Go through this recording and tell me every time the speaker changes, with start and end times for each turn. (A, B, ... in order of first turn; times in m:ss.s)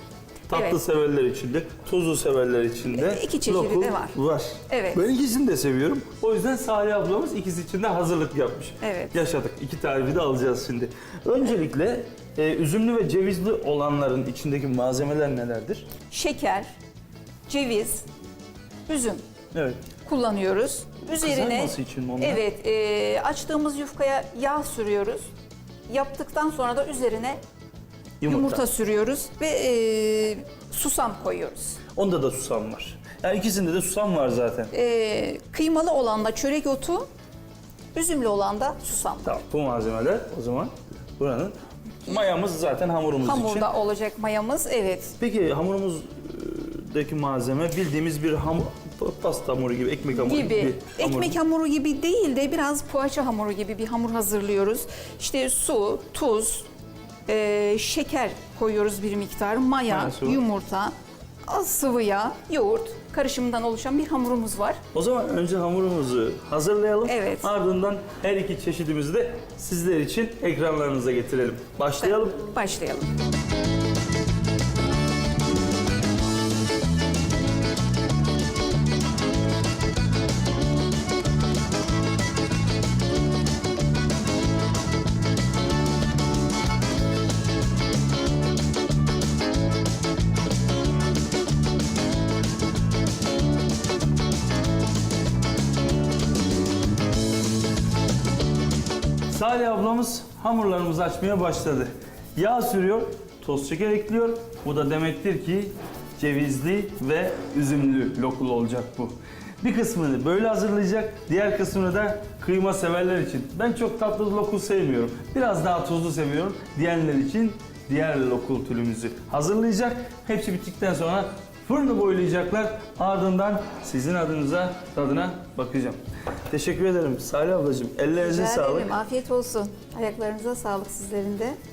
0:00.5-0:15.9 A
0:00.5-0:00.8 B
0:02.9-0:04.2 B
0:04.7-0:05.0 B
0:08.8-0:09.2 B
0:16.1-0:16.7 B
0:17.5-0:18.0 B
0:18.9-0:19.2 B
0:19.5-0:19.9 A
0:20.0-0:25.3 B
0:21.2-0:22.4 A
0:25.9-0:27.4 B
0:28.2-0:28.6 A
0:28.2-0:31.8 B
0:31.9-0:34.7 A
0:34.7-0:37.0 B
0:37.9-0:39.4 B
0:39.2-0:43.7 A
0:43.2-0:45.2 B
0:45.2-0:51.4 A
0:50.1-0:56.7 B
0:57.3-1:00.9 B
0:59.9-1:00.4 A
1:01.4-1:04.8 B
1:04.9-1:12.4 A
1:07.1-1:07.5 B
1:12.0-1:13.1 B
1:39.3-2:06.0 A
2:06.5-2:08.9 A
2:08.2-2:11.6 B